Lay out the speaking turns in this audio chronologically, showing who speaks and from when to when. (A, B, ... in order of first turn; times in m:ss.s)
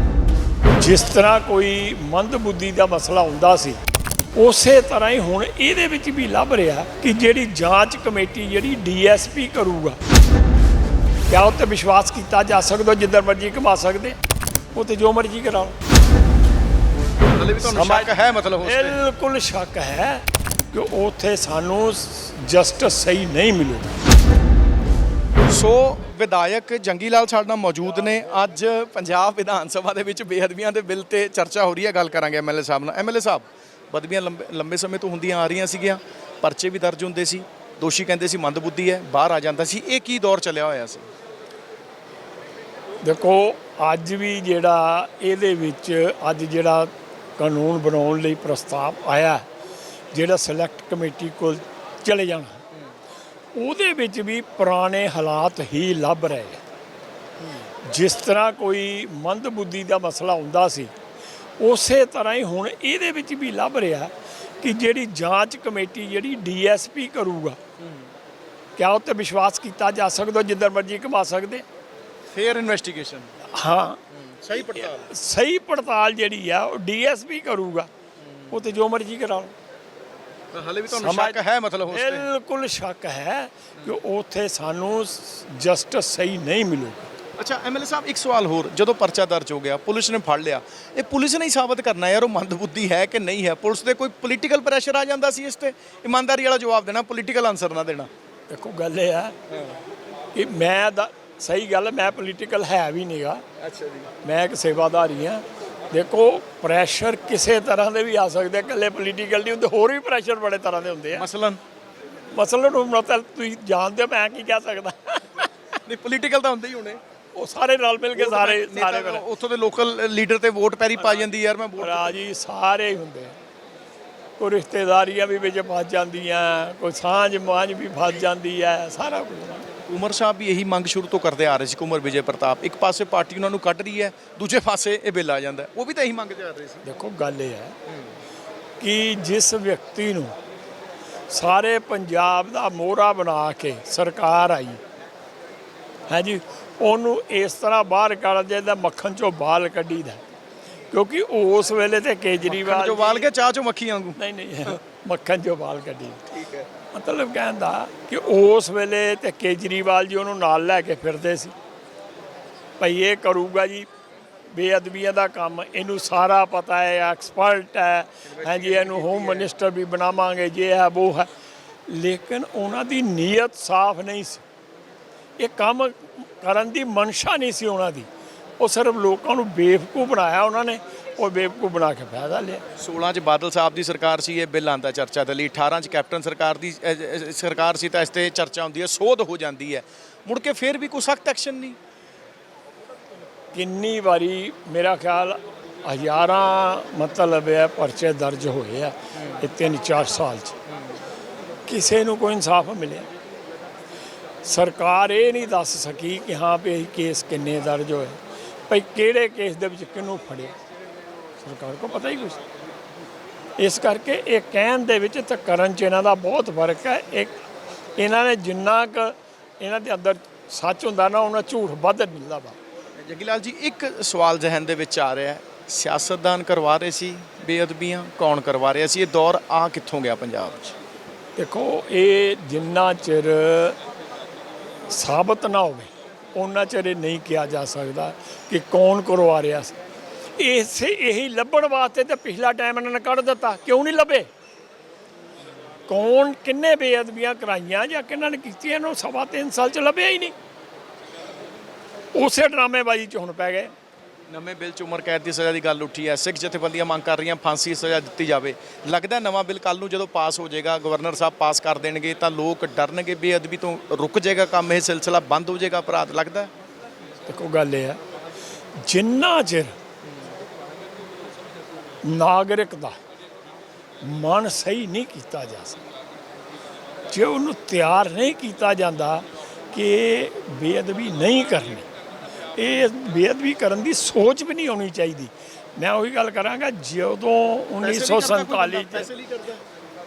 0:00.8-0:03.8 A
0:04.3-0:10.0 A
0:11.3-0:14.2 A
0:14.8-0:15.8 A
0:17.2-0:19.0 B
0:17.6-0:24.0 A
0:25.5-0:41.1 B
0:43.0-0:49.4 A
0:50.1-0:52.6 A
0:53.6-0:56.6 A
0:57.8-1:00.9 A
1:01.6-1:07.6 A
1:08.8-1:11.6 A
1:12.3-1:13.3 B
1:13.5-1:14.0 A
1:14.2-1:15.1 B
1:14.7-1:17.9 A
1:18.5-1:19.5 A
1:20.5-1:22.3 B
1:20.9-1:21.4 A
1:21.9-1:27.1 A
1:27.4-1:38.1 B
1:38.5-1:39.4 A
1:39.5-1:39.8 B
1:40.3-1:43.4 A
1:43.6-1:44.1 B
1:44.2-1:51.3 A
1:51.1-1:51.6 B
1:52.3-1:55.5 A
1:55.8-1:57.0 B
1:57.3-1:59.2 A
1:58.1-2:02.2 B
2:01.8-2:03.4 A
2:04.4-2:09.7 A
2:09.9-2:16.8 B
2:16.8-2:17.8 A
2:18.8-2:20.4 A
2:21.3-2:24.8 A
2:26.1-2:30.2 A
2:30.9-2:33.3 A
2:32.5-2:34.2 B
2:34.2-2:36.2 A
2:36.3-2:36.7 B
2:36.9-2:41.6 A
2:42.8-2:43.9 A
2:44.5-2:51.3 A
2:48.3-2:49.5 B
2:51.9-2:54.4 A
2:55.4-2:58.1 A
2:58.6-3:02.6 A
3:02.8-3:11.8 B
3:13.5-3:20.6 A
3:19.2-3:19.5 B
3:21.7-3:23.1 A
3:24.4-3:30.6 A
3:31.4-3:32.4 A
3:33.6-3:37.4 A
3:38.0-3:42.6 A
3:43.0-3:50.8 B
3:51.4-3:53.8 A
3:54.9-3:59.8 A
4:00.4-4:04.3 A
4:05.9-4:10.4 A
4:12.2-4:13.7 A
4:14.3-4:26.5 B
4:27.3-4:28.0 A
4:28.8-4:29.8 A
4:32.0-4:33.0 A
4:34.0-4:35.8 A
4:37.1-4:41.9 A
4:42.6-4:49.1 A
4:47.8-4:49.6 B